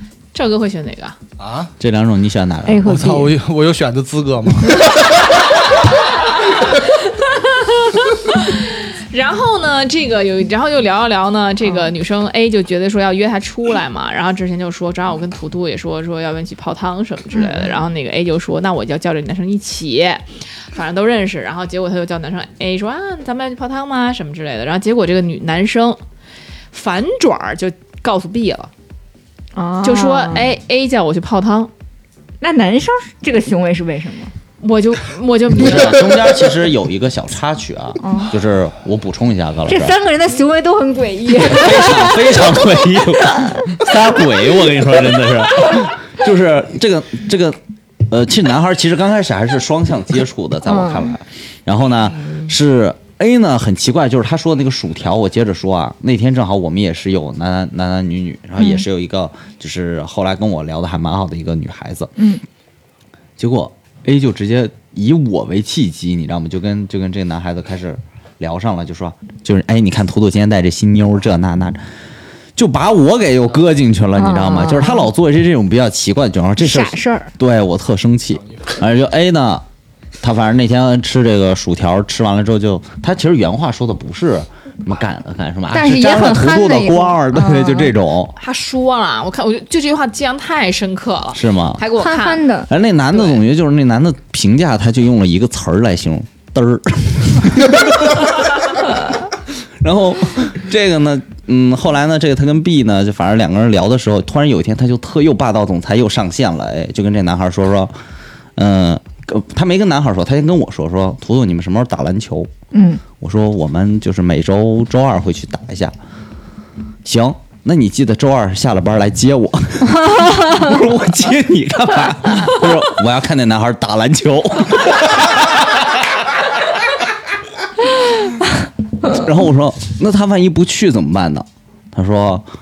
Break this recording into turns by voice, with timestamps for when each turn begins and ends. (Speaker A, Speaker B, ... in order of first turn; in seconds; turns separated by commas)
Speaker A: 0.3-1.2, Speaker B: 1.4-1.7, Speaker C: 1.8-2.9, Speaker D: 2.6-3.3, Speaker B: 2.8-4.8, Speaker A: 6.6-26.0, Speaker D: 17.3-17.8, Speaker A: 26.7-28.7, Speaker D: 29.5-30.5, Speaker A: 29.8-31.7, Speaker D: 32.4-34.3, Speaker A: 34.6-36.0, Speaker C: 35.5-40.0, Speaker D: 38.0-38.3, Speaker D: 39.7-42.7, Speaker C: 41.4-62.1, Speaker D: 50.7-51.1, Speaker D: 58.6-58.8, Speaker C: 63.4-71.8, Speaker C: 72.5-79.6, Speaker D: 74.2-75.1, Speaker D: 76.6-77.3, Speaker C: 80.2-88.3, Speaker D: 85.7-87.9, Speaker A: 88.3-92.5, Speaker C: 91.3-91.8, Speaker D: 91.9-92.7, Speaker C: 92.7-99.2, Speaker A: 93.1-93.4, Speaker C: 99.8-107.9, Speaker C: 108.6-112.5, Speaker D: 112.7-113.0, Speaker C: 113.2-115.9, Speaker C: 117.0-125.9, Speaker D: 120.1-120.6, Speaker C: 129.1-132.4